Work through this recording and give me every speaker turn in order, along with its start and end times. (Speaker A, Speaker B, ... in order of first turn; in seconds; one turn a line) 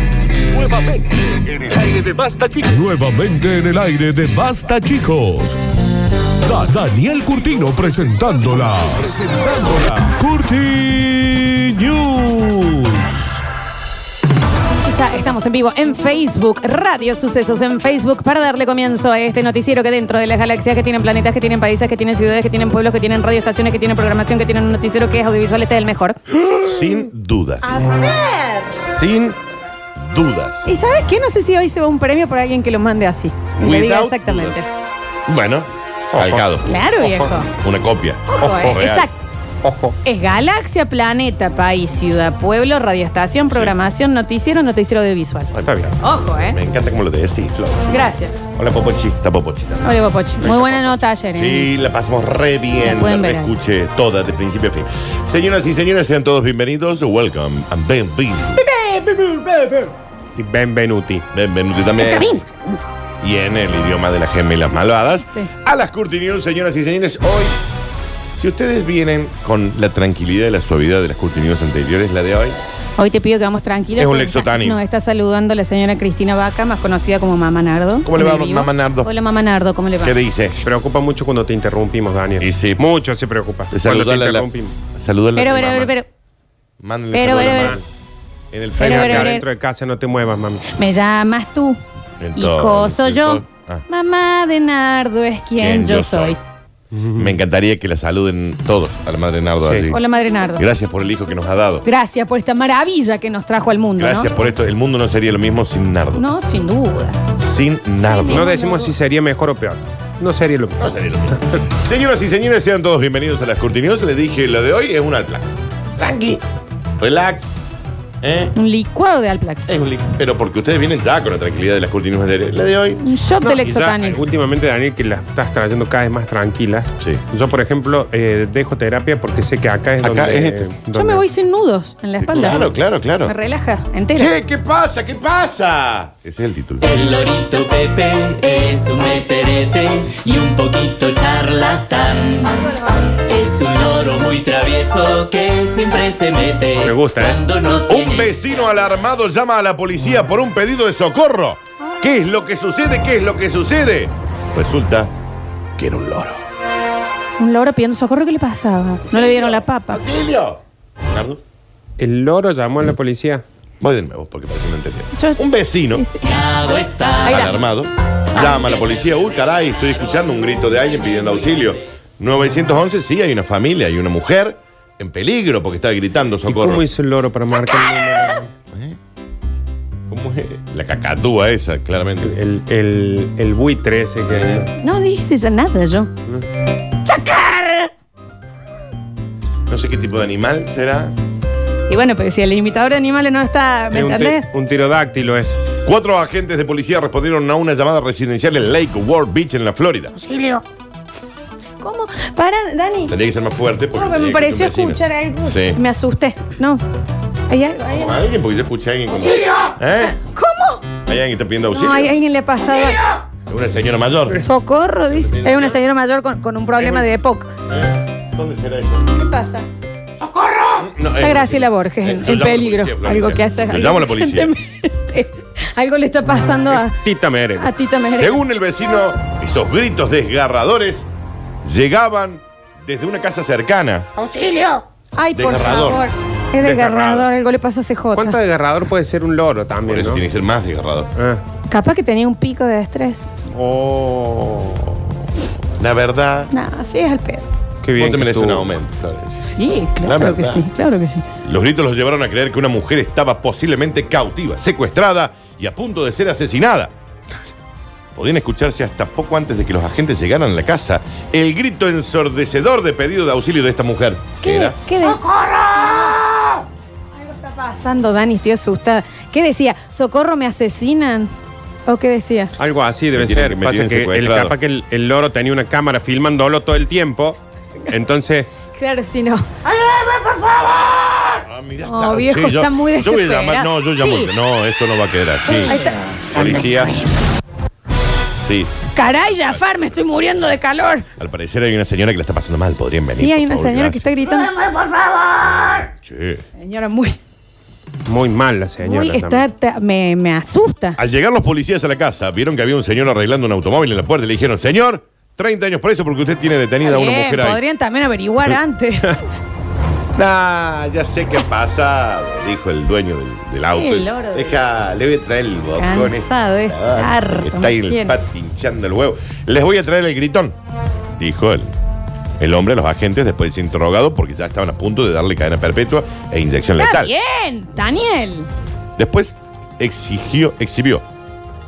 Speaker A: 0.5-5.6
Speaker A: 6.4-13.3
Speaker B: 14.8-26.2
Speaker C: 26.3-27.9
Speaker B: 27.6-28.8
Speaker C: 28.7-29.4
Speaker C: 30.0-30.7
Speaker B: 30.6-34.7
Speaker C: 33.6-34.6
Speaker C: 35.3-36.8
Speaker D: 36.1-37.4
Speaker B: 36.6-37.5
Speaker C: 37.6-39.1
Speaker B: 38.3-39.2
Speaker D: 38.4-38.9
Speaker D: 39.6-40.0
Speaker B: 40.0-46.6
Speaker D: 45.6-46.0
Speaker C: 46.5-58.6
Speaker B: 47.9-48.3
Speaker B: 49.8-51.7
Speaker B: 52.8-53.5
Speaker B: 58.5-59.9
Speaker D: 60.4-61.2
Speaker C: 61.3-62.4
Speaker B: 62.0-62.9
Speaker C: 63.2-67.5
Speaker B: 65.2-65.5
Speaker C: 68.4-72.6
Speaker B: 73.0-80.2
Speaker C: 74.0-74.8
Speaker C: 78.0-79.1
Speaker C: 80.0-80.6
Speaker D: 80.6-84.7
Speaker C: 82.4-82.8
Speaker C: 83.7-85.9
Speaker B: 85.3-86.1
Speaker C: 86.8-87.8
Speaker B: 87.1-87.8
Speaker D: 87.2-87.8
Speaker C: 88.5-89.3
Speaker B: 88.8-89.5
Speaker D: 88.8-90.6
Speaker B: 90.7-91.8
Speaker C: 92.2-93.8
Speaker B: 92.3-96.4
Speaker C: 95.6-96.4
Speaker D: 96.9-97.3
Speaker C: 97.1-100.0
Speaker D: 99.6-100.0
Speaker B: 99.9-100.7
Speaker C: 100.5-101.8
Speaker B: 101.8-104.3
Speaker C: 104.0-106.2
Speaker B: 106.1-107.2
Speaker C: 107.4-108.5
Speaker B: 107.9-108.9
Speaker D: 108.3-111.6
Speaker C: 110.8-116.4
Speaker C: 117.0-117.5
Speaker C: 118.2-118.5
Speaker B: 118.5-119.7
Speaker C: 119.7-123.0
Speaker B: 123.0-124.2
Speaker D: 123.4-131.2
Speaker C: 130.0-130.7
Speaker B: 130.9-134.3
Speaker C: 132.2-133.3
Speaker C: 134.2-136.9
Speaker E: 136.8-142.5
Speaker B: 142.4-143.2
Speaker E: 143.2-148.3
Speaker D: 146.8-147.4
Speaker C: 147.9-155.1
Speaker C: 155.8-156.4
Speaker B: 157.4-160.0
Speaker C: 159.1-161.4
Speaker D: 162.0-163.4
Speaker C: 163.8-166.1
Speaker B: 165.1-166.4
Speaker E: 166.2-167.4
Speaker B: 167.2-167.6
Speaker C: 167.2-176.8
Speaker E: 168.5-169.4
Speaker D: 176.5-178.5
Speaker B: 177.7-178.3
Speaker C: 178.7-179.0
Speaker C: 180.1-182.3
Speaker D: 182.2-184.7
Speaker C: 184.3-184.7
Speaker B: 184.8-186.1
Speaker B: 187.0-187.9
Speaker C: 189.7-191.2
Speaker B: 191.9-194.4
Speaker D: 193.9-195.6
Speaker C: 195.7-200.2
Speaker E: 200.2-200.6
Speaker B: 201.8-203.2
Speaker C: 203.1-205.8
Speaker B: 203.9-206.8
Speaker B: 207.5-208.2
Speaker C: 207.9-210.2
Speaker E: 209.1-209.8
Speaker B: 209.9-210.8
Speaker C: 211.1-212.2
Speaker B: 211.7-213.0
Speaker E: 212.8-213.2
Speaker C: 213.5-214.4
Speaker B: 214.3-217.5
Speaker C: 215.1-215.8
Speaker D: 216.8-217.1
Speaker C: 217.7-219.1
Speaker B: 219.1-219.7
Speaker E: 220.2-220.9
Speaker C: 220.8-224.5
Speaker B: 221.2-227.0
Speaker D: 226.7-227.8
Speaker B: 227.6-228.4
Speaker C: 228.0-231.1
Speaker C: 231.6-234.1
Speaker E: 234.2-234.8
Speaker B: 235.2-238.4
Speaker C: 235.3-236.1
Speaker D: 236.6-237.3
Speaker D: 238.2-240.2
Speaker C: 239.8-241.1
Speaker D: 241.2-241.4
Speaker B: 241.7-243.3
Speaker D: 243.5-245.2
Speaker C: 245.8-246.5
Speaker B: 246.5-247.4
Speaker D: 247.8-248.7
Speaker C: 248.0-250.7
Speaker B: 249.4-251.2
Speaker C: 251.4-256.9
Speaker C: 258.1-264.8
Speaker B: 264.4-266.2
Speaker E: 265.0-266.6
Speaker B: 267.2-271.3
Speaker B: 271.9-272.6
Speaker D: 272.6-278.5
Speaker C: 273.1-274.6
Speaker B: 278.7-279.5
Speaker E: 279.6-281.4
Speaker C: 281.4-286.9
Speaker B: 281.8-284.3
Speaker B: 285.4-286.7
Speaker C: 288.4-290.1
Speaker B: 288.9-291.1
Speaker C: 291.2-294.1
Speaker B: 293.1-294.6
Speaker E: 294.2-295.9
Speaker C: 296.1-296.4
Speaker B: 296.6-297.2
Speaker D: 298.1-299.4
Speaker B: 298.8-301.0
Speaker C: 301.0-307.6
Speaker B: 306.8-309.2
Speaker C: 310.1-320.6
Speaker B: 313.7-314.6
Speaker B: 315.8-318.1
Speaker C: 321.2-321.7
Speaker C: 322.4-327.1
Speaker B: 326.8-328.5
Speaker C: 329.0-331.0